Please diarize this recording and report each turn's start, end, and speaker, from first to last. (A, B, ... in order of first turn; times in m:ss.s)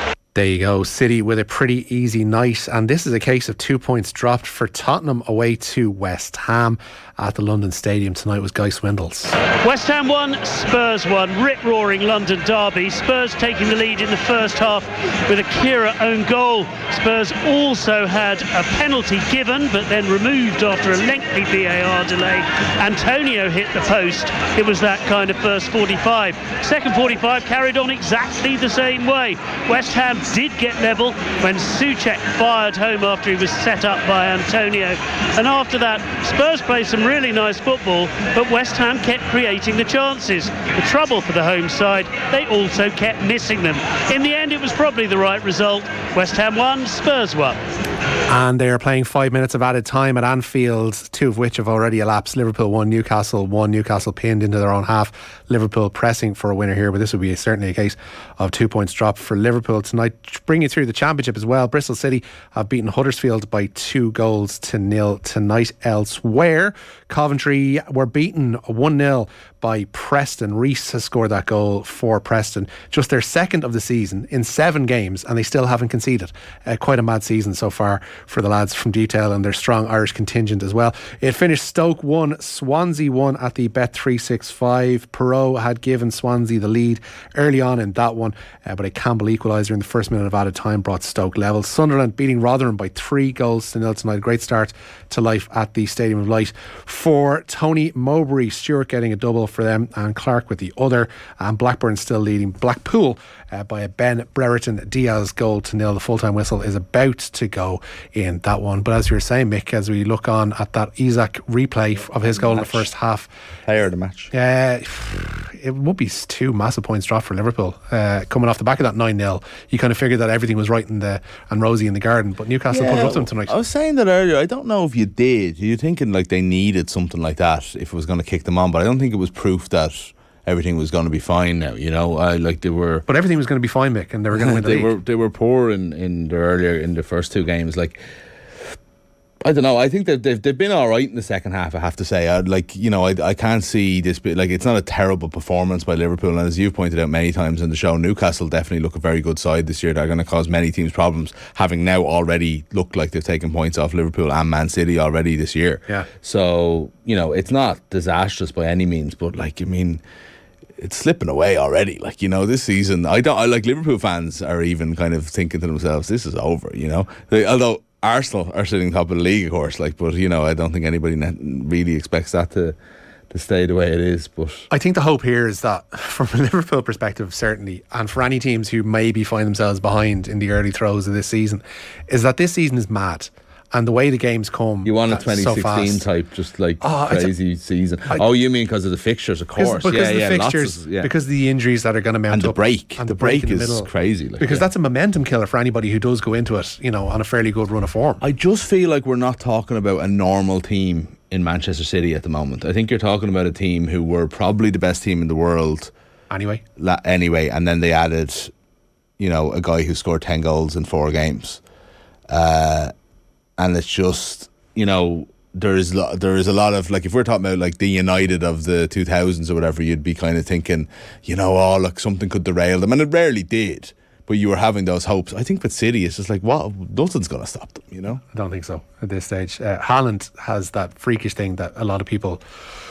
0:00.4-0:09.4 A
0:09.6-0:47.6 B
0:48.3-1:53.3 A
1:52.5-1:52.9 C
1:53.7-1:54.3 C
1:54.3-2:03.5 A
2:02.7-2:13.0 C
2:13.1-2:14.9 A
2:14.3-2:18.0 C
2:19.4-2:40.0 C
2:40.8-2:52.8 C
2:53.3-2:54.7 C
2:54.7-3:06.1 A
3:04.8-3:11.1 C
3:06.8-3:07.3 A
3:09.6-3:18.2 A
3:12.3-3:14.7 C
3:18.2-3:25.9 C
3:26.3-3:26.6 A
3:26.8-3:28.5 C
3:29.2-3:31.6 C
3:32.3-3:32.9 C
3:33.6-3:48.2 C
3:48.3-3:52.4 A